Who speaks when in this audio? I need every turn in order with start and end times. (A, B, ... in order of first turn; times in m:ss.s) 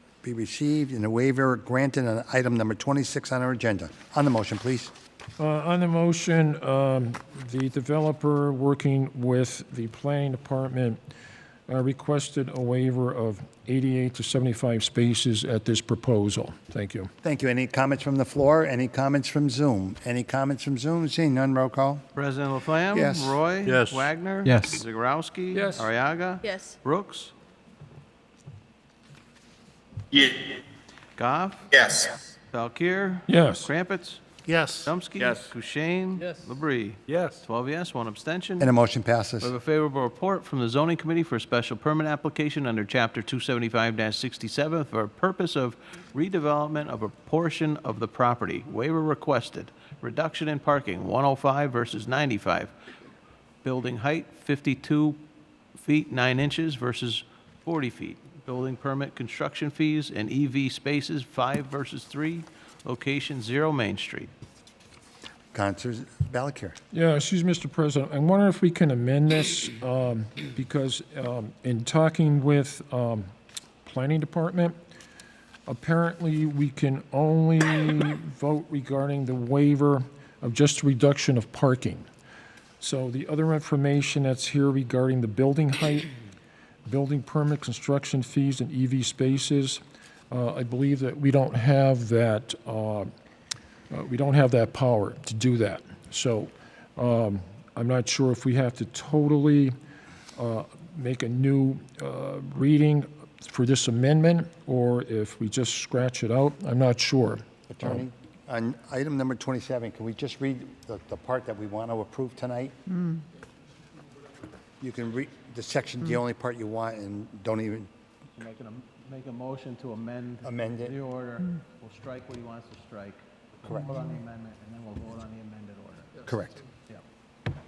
0:00.2-0:04.9 A
0:05.4-0:11.0 B
0:11.7-0:17.1 B
0:17.2-0:22.0 A
0:22.1-0:27.3 C
0:22.9-0:23.4 A
0:23.6-0:24.1 D
0:25.5-0:25.8 D
0:31.2-0:34.2 C
0:33.3-0:33.7 B
0:34.5-0:35.5 D
0:34.7-0:38.7 C
0:36.2-0:36.5 D
0:37.1-0:37.4 D
0:38.6-0:39.5 A
0:39.4-0:52.7 C
0:53.6-0:55.2 C
0:55.8-1:04.3 C
1:05.5-1:06.8 A
1:06.9-1:13.3 B
1:13.8-1:14.7 B
1:15.7-1:22.0 B
1:22.8-1:26.1 B
1:26.8-1:33.1 B
1:33.9-1:39.7 B
1:40.4-1:47.9 B
1:47.7-1:53.2 A
1:54.8-1:57.9 A
1:58.4-2:06.2 C
2:00.4-2:00.9 A
2:06.2-2:06.6 A